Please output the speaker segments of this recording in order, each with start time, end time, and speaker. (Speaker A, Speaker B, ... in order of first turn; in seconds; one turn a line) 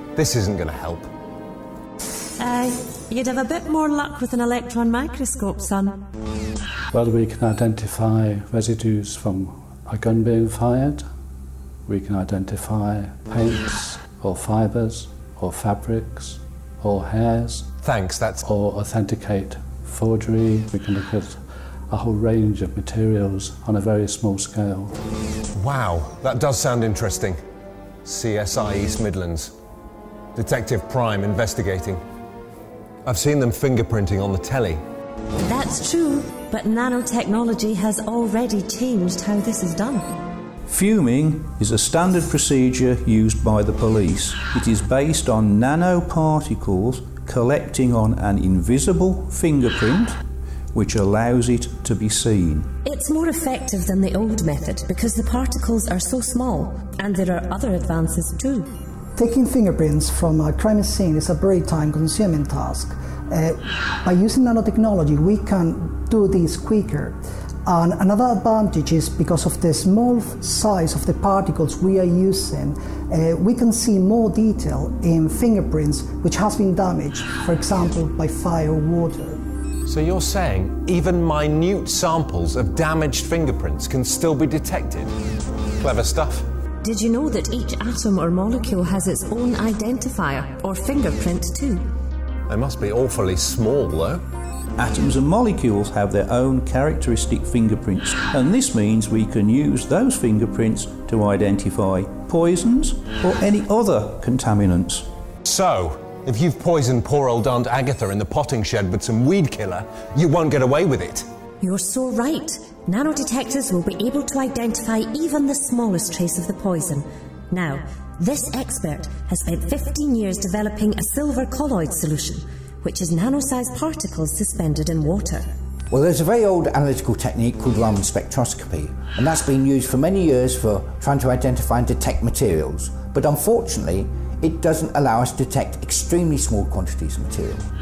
Speaker A: 0.1-1.1
Speaker B: 2.4-6.0
Speaker C: 6.9-11.0
Speaker C: 11.9-17.7
Speaker A: 17.8-18.4
Speaker C: 18.4-24.9
Speaker A: 25.5-27.4
Speaker A: 28.0-29.5
Speaker A: 30.3-32.0
Speaker A: 33.0-34.8
Speaker B: 35.4-40.1
Speaker D: 40.7-50.2
Speaker D: 50.7-52.7
Speaker B: 52.8-58.7
Speaker E: 59.1-79.4
Speaker A: 79.8-85.1
Speaker A: 85.8-86.5
Speaker B: 86.8-91.8
Speaker A: 92.5-94.2
Speaker D: 94.8-105.1
Speaker A: 105.4-111.2
Speaker B: 111.6-125.5
Speaker F: 125.9-137.6